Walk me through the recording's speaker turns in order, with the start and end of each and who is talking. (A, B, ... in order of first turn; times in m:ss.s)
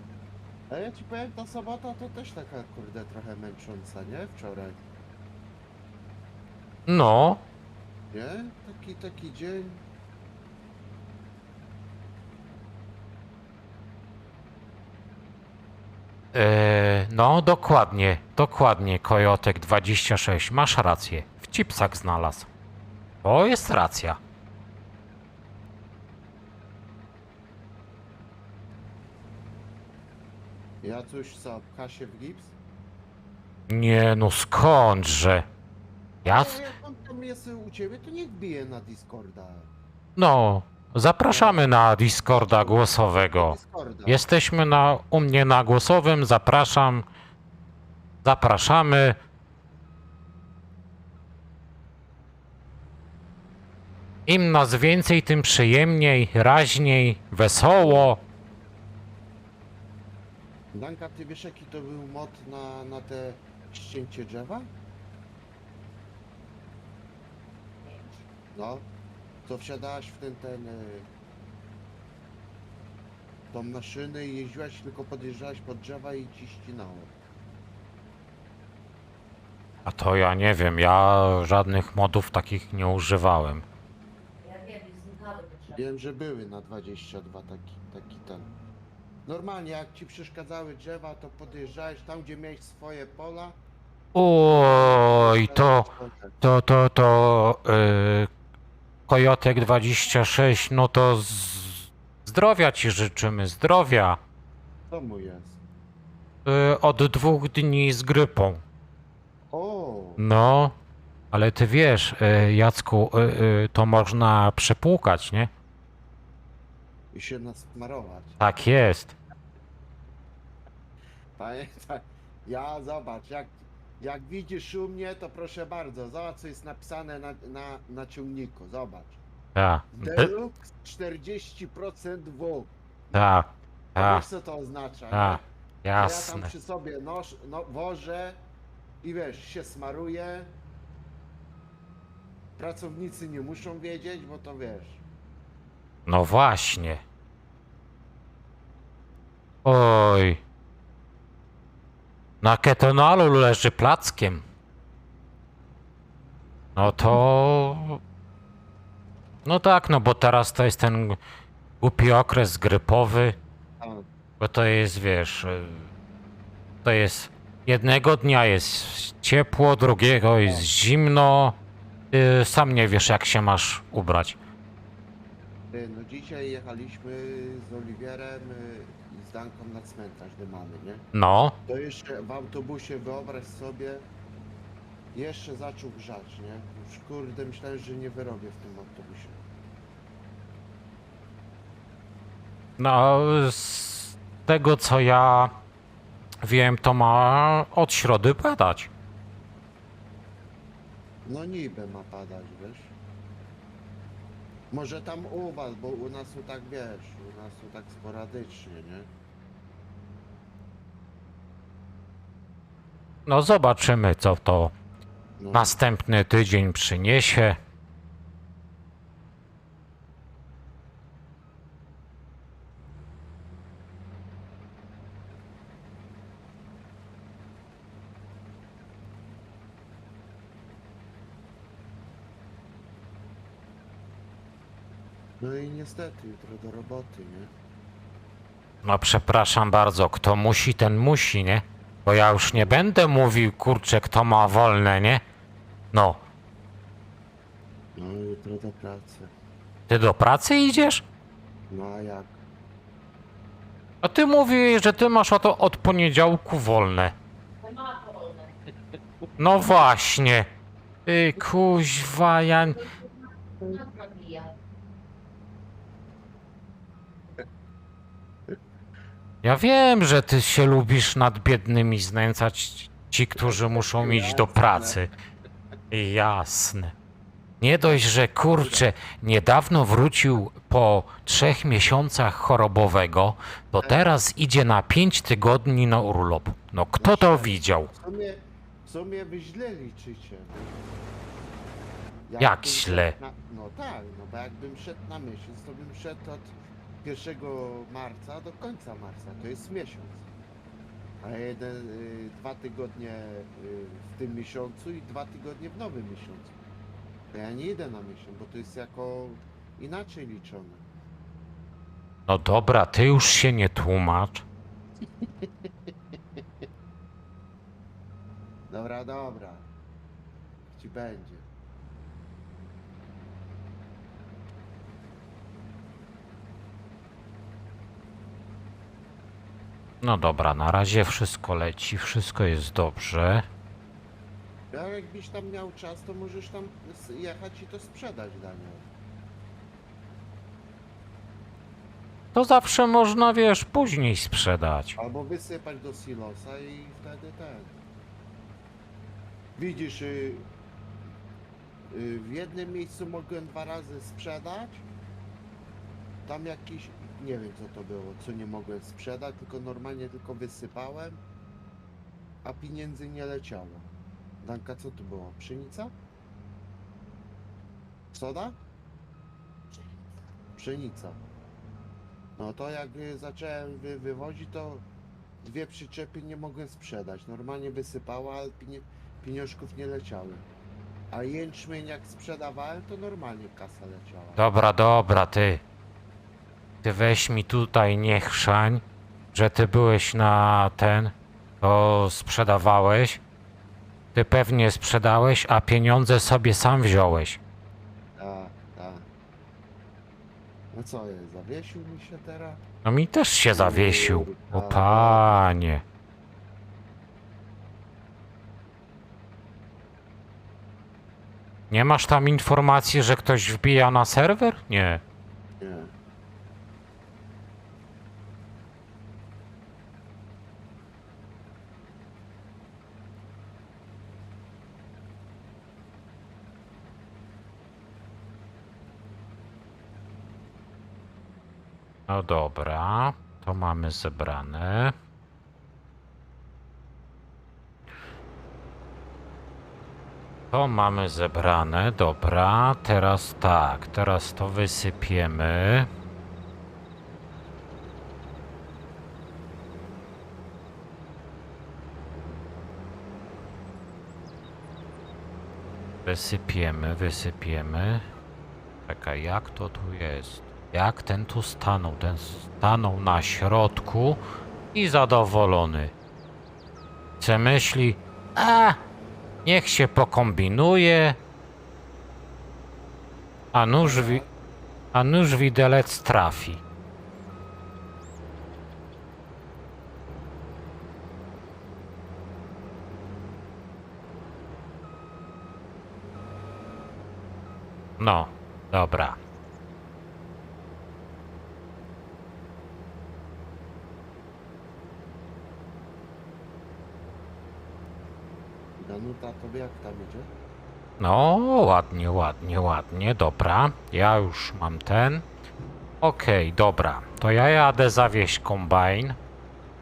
0:00.7-0:04.8 A
0:06.9-0:07.4 B
0:08.1-0:09.8 A
0:16.3-0:22.5 B
0:23.2-0:24.2 B
0:30.8-0:32.5 A
0:33.7-0:35.4 B
0:36.2-0:39.7 A
0:36.2-0:36.6 B
0:40.2-0:47.0 B
0:41.2-0:41.6 A
0:42.4-0:44.2 A
0:48.2-0:49.2 B
0:54.3-0:58.2 B
0:57.7-0:58.1 A
1:00.7-1:04.7 A
1:07.8-1:08.2 C
1:08.5-1:08.9 A
1:09.4-1:11.1 A
1:13.5-1:17.1 A
1:19.8-1:23.6 B
1:24.4-1:25.8 C
1:25.7-1:28.5 A
1:29.2-1:33.6 A
1:34.1-1:35.9 B
1:34.5-1:36.4 A
1:36.4-1:38.3 B
1:39.1-1:44.2 B
1:44.9-1:45.6 A
1:46.4-1:48.6 B
1:49.5-1:50.2 A
1:50.2-1:50.7 B
1:51.3-1:55.5 B
1:57.1-1:58.4 A
1:58.4-1:59.1 B
2:01.4-2:09.2 A
2:09.5-2:10.3 B
2:10.0-2:13.3 A
2:13.1-2:14.2 B
2:13.9-2:15.4 A
2:15.1-2:16.5 B
2:16.0-2:18.4 A
2:19.0-2:20.5 A
2:22.6-2:25.0 A
2:26.0-2:27.0 B
2:29.6-2:30.4 B
2:32.4-2:34.4 B
2:36.7-2:38.0 B
2:39.4-2:41.2 B
2:41.8-2:43.4 B
2:43.8-2:44.1 A
2:44.4-2:45.9 B
2:46.8-2:51.5 B
2:52.1-2:54.4 B
2:55.7-3:01.0 A
3:01.1-3:01.6 B
3:01.6-3:04.1 A
3:05.1-3:09.4 A
3:12.8-3:15.5 B
3:16.4-3:18.9 B
3:21.2-3:22.9 A
3:24.7-3:29.1 A
3:33.2-3:34.7 B
3:35.4-3:35.8 A
3:35.5-3:37.6 B
3:55.4-3:57.5 A
3:58.8-4:05.2 B
4:02.5-4:02.8 A
4:05.9-4:06.2 B
4:08.0-4:09.3 A
4:09.9-4:11.0 B
4:11.7-4:12.4 A
4:14.0-4:17.1 B
4:17.6-4:18.6 C
4:19.4-4:20.5 B
4:21.0-4:22.8 B
4:23.6-4:24.5 C
4:29.4-4:35.1 B
4:33.4-4:35.0 A
4:35.9-4:36.9 B
4:37.6-4:47.9 B
4:37.8-4:38.9 A
4:43.8-4:44.1 A
4:47.0-4:50.9 A
4:52.2-5:00.2 A
4:52.4-4:53.2 B
5:01.2-5:06.5 A
5:07.3-5:10.8 A
5:12.3-5:14.4 B
5:15.2-5:16.4 A
5:18.7-5:19.7 A
5:20.7-5:21.5 A
5:30.0-5:33.4 B
5:34.7-5:38.9 A
5:42.3-5:45.0 B
5:45.0-5:47.8 A
5:49.6-5:50.5 A
5:51.9-5:54.9 A
5:56.2-6:01.2 A
6:02.4-6:03.9 A
6:04.4-6:05.9 A
6:08.1-6:08.6 A
6:10.5-6:11.2 A
6:12.4-6:14.8 A
6:15.4-6:20.5 A
6:21.1-6:24.5 A
6:24.4-6:25.6 B
6:26.8-6:33.2 B
6:34.1-6:37.4 B
6:38.2-6:39.1 A
6:40.7-6:42.6 A
6:42.8-6:45.8 B
6:43.5-6:45.4 A
6:51.7-6:55.0 B
6:55.6-6:55.9 A
7:12.1-7:14.9 B
7:20.5-7:25.9 B
7:36.0-7:38.0 B
7:38.9-7:44.2 B
7:44.7-7:45.9 B
7:47.2-7:48.8 B
7:49.4-7:51.2 B
7:53.5-7:54.2 B
7:53.8-7:54.3 A
7:54.9-7:56.6 B
8:08.0-8:09.2 B
8:18.8-8:20.3 A
8:21.0-8:25.2 B
8:26.0-8:29.2 B